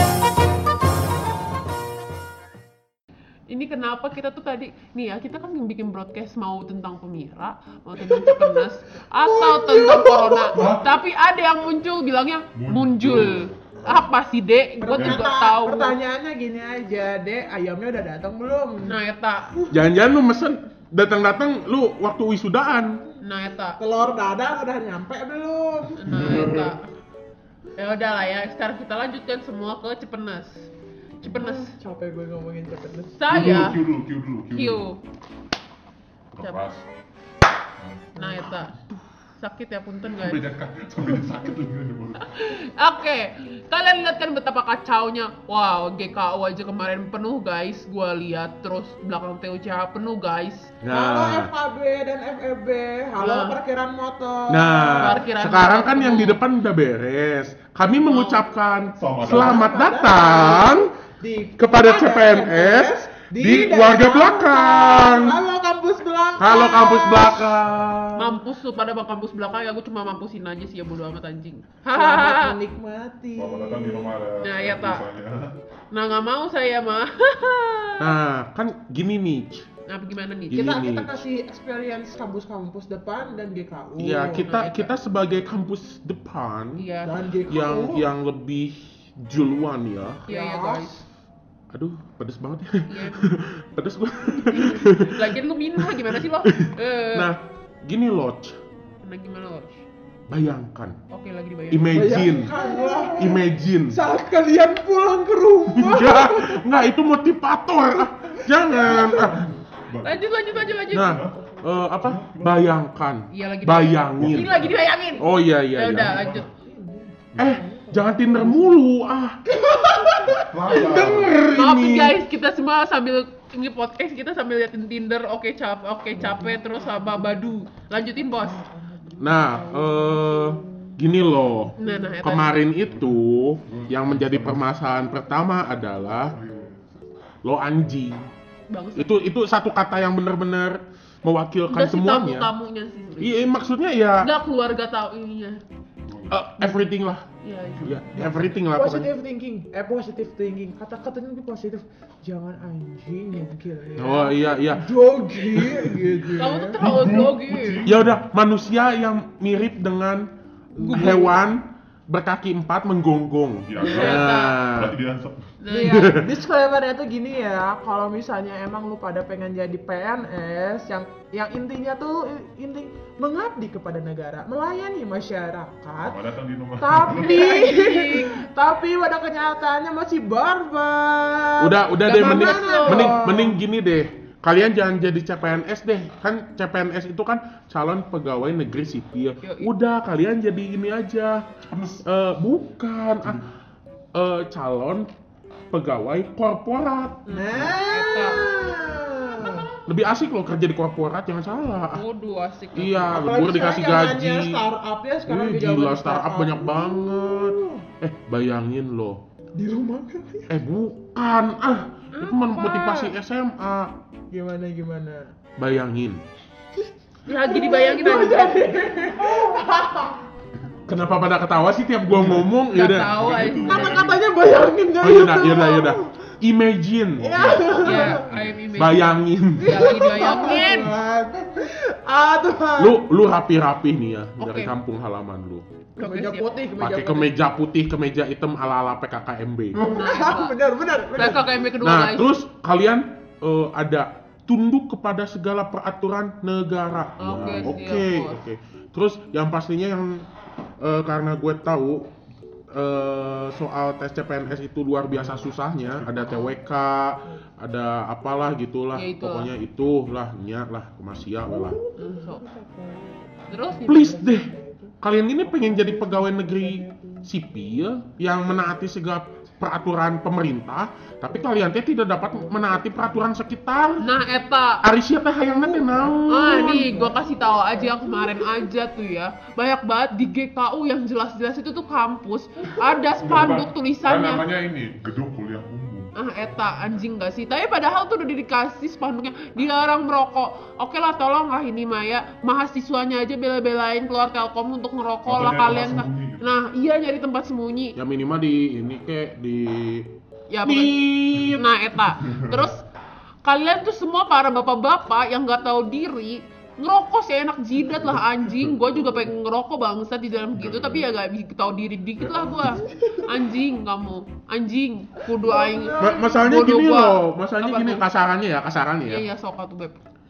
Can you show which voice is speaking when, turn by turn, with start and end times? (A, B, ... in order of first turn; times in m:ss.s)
0:03.5-0:16.0 A
0:08.1-0:08.6 B
0:09.2-0:10.6 B
0:10.5-0:10.9 C
0:12.6-0:14.0 C
0:14.8-0:18.9 B
0:15.0-0:15.3 C
0:18.8-0:19.5 A
0:19.7-0:23.0 D
0:23.2-0:23.8 A
0:23.8-0:26.4 B
0:26.0-0:26.9 A
0:26.1-0:26.7 C
0:27.8-0:30.7 A
0:31.2-0:31.7 A
0:31.3-0:33.3 B
0:33.2-0:33.8 A
0:33.3-0:34.8 C
0:34.5-0:35.0 A
0:36.3-0:36.8 C
0:37.8-0:38.3 C
0:38.2-0:38.8 A
0:39.4-0:40.5 A
0:40.2-0:42.4 C
0:42.2-0:50.7 A
0:50.8-0:51.5 D
0:50.9-0:55.2 B
0:53.2-0:53.6 A
0:54.5-1:00.9 D
0:54.9-0:56.4 A
0:58.0-0:58.4 A
0:59.0-0:59.7 C
0:59.3-1:07.6 B
1:01.6-1:05.4 D
1:06.4-1:08.3 D
1:08.2-1:12.6 A
1:11.9-1:14.1 B
1:13.4-1:15.6 C
1:14.4-1:15.0 A
1:15.9-1:18.2 A
1:18.0-1:19.7 D
1:19.9-1:20.7 A
1:20.5-1:21.2 D
1:20.5-1:24.5 B
1:24.0-1:26.8 D
1:24.5-1:25.0 A
1:26.8-1:27.2 A
1:27.0-1:28.1 B
1:27.5-1:30.2 D
1:30.3-1:31.0 B
1:30.3-1:30.9 A
1:31.7-1:38.6 D
1:32.9-1:33.4 A
1:34.5-1:37.3 A
1:39.0-1:39.8 A
1:40.3-1:41.0 D
1:41.1-1:42.3 A
1:41.7-1:42.6 D
1:41.9-1:46.6 B
1:43.1-1:44.0 D
1:45.7-1:49.5 D
1:48.3-1:49.2 B
1:48.8-1:52.8 C
1:50.0-1:51.2 A
1:50.9-1:56.2 D
1:53.3-1:56.5 A
1:54.2-1:54.8 C
1:56.0-1:56.5 C
1:56.6-1:58.8 B
1:57.4-1:57.6 C
1:57.4-2:02.2 D
1:59.5-2:00.4 B
2:00.3-2:01.4 C
2:01.5-2:08.6 A
2:06.2-2:11.0 B
2:09.2-2:16.4 D
2:11.8-2:12.2 B
2:11.8-2:12.6 A
2:12.9-2:14.7 C
2:16.3-2:17.1 C
2:17.4-2:18.3 D
2:18.7-2:19.2 A
2:19.0-2:22.5 D
2:21.7-2:23.6 A
2:23.2-2:24.3 D
2:24.2-2:25.6 A
2:26.1-2:26.4 C
2:26.3-2:27.2 D
2:27.4-2:28.0 A
2:27.8-2:28.5 C
2:27.8-2:29.1 D
2:28.7-2:36.8 B
2:34.0-2:35.0 D
2:35.7-2:36.2 C
2:36.4-2:37.8 A
2:36.7-2:38.2 C
2:37.8-2:40.3 D
2:40.8-2:41.3 B
2:40.8-2:41.4 A
2:40.9-2:45.0 D
2:43.7-2:45.6 C
2:43.8-2:44.7 A
2:45.6-2:46.2 A
2:45.7-2:56.2 B
2:45.7-2:46.3 D
2:56.0-2:57.6 C
2:56.8-3:03.6 B
2:57.1-2:58.4 A
3:01.6-3:11.4 D
3:02.0-3:03.3 A
3:09.4-3:09.7 A
3:11.7-3:12.0 C
3:12.0-3:13.4 D
3:13.2-3:13.5 C
3:14.1-3:15.1 D
3:15.7-3:17.2 D
3:17.3-3:18.6 A
3:17.3-3:19.7 B
3:19.9-3:22.0 D
3:21.9-3:23.2 A
3:22.8-3:24.6 D
3:23.1-3:27.8 B
3:25.3-3:29.2 D
3:29.6-3:30.5 B
3:30.5-3:34.0 D
3:32.1-3:33.1 A
3:34.3-3:35.3 B
3:35.6-3:36.2 D
3:37.3-3:38.8 A
3:37.3-3:40.2 B
3:40.8-3:41.2 C
3:40.9-3:43.3 D
3:42.1-3:44.3 C
3:42.7-3:44.0 A
3:43.7-3:46.3 B
3:45.0-3:48.1 D
3:47.2-3:48.2 B
3:47.3-3:48.6 C
3:47.8-3:50.9 A
3:48.8-3:50.0 D
3:49.6-3:53.0 B
3:52.8-3:55.6 D
3:54.4-3:54.7 A
3:56.0-3:56.5 A
3:56.0-3:57.3 B
3:56.8-3:59.8 D
3:59.8-4:01.5 B
3:59.9-4:00.6 A
4:01.1-4:02.3 A
4:01.8-4:10.3 D
4:07.2-4:07.8 C
4:07.2-4:08.4 A
4:10.8-4:12.1 D
4:12.7-4:21.8 D
4:15.1-4:16.5 C
4:18.9-4:19.5 A
4:21.4-4:27.3 B
4:22.0-4:22.4 A
4:23.5-4:24.1 A
4:23.9-4:24.5 D
4:25.0-4:34.2 D
4:34.0-4:34.8 A
4:34.8-4:37.0 D
4:35.5-4:38.6 B
4:36.3-4:44.4 A
4:43.2-4:46.1 C
4:46.2-4:58.0 A
4:55.3-4:56.5 C
4:58.0-5:00.1 D
5:00.5-5:02.8 A
5:00.6-5:01.7 D
5:02.3-5:02.6 C
5:03.4-5:18.1 A
5:08.5-5:08.9 C
5:10.5-5:11.1 C
5:12.2-5:12.8 C
5:15.4-5:16.7 B
5:16.0-5:19.2 D
5:19.1-5:20.0 A